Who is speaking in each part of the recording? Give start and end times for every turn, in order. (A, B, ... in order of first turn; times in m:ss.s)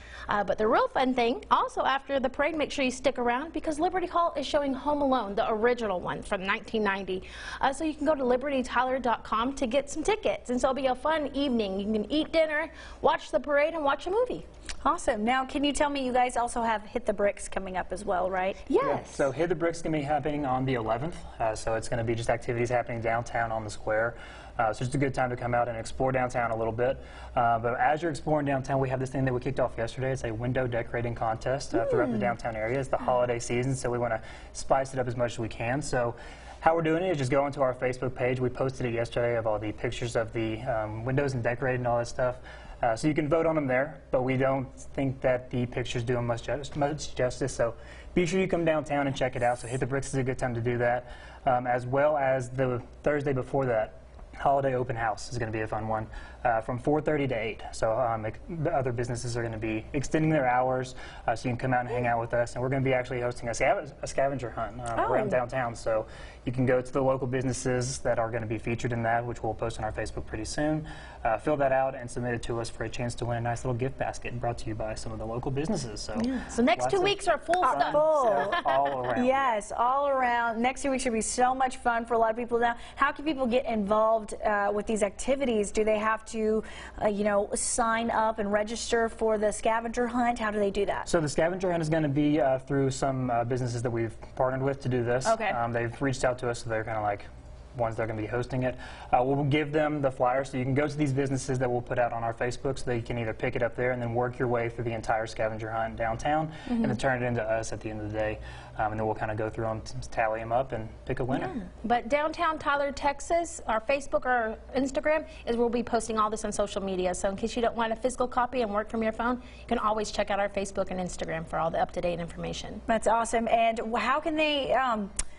0:00.3-0:14.4 A
0:14.8-0:18.6 B
0:18.7-0:19.3 A
0:18.8-1:19.5 C
1:05.0-1:05.4 B
1:16.2-1:19.0 A
1:17.6-1:18.6 B
1:19.1-1:31.1 B
1:31.0-1:51.5 C
1:35.2-1:35.6 A
1:51.3-2:02.8 A
2:02.9-2:05.1 B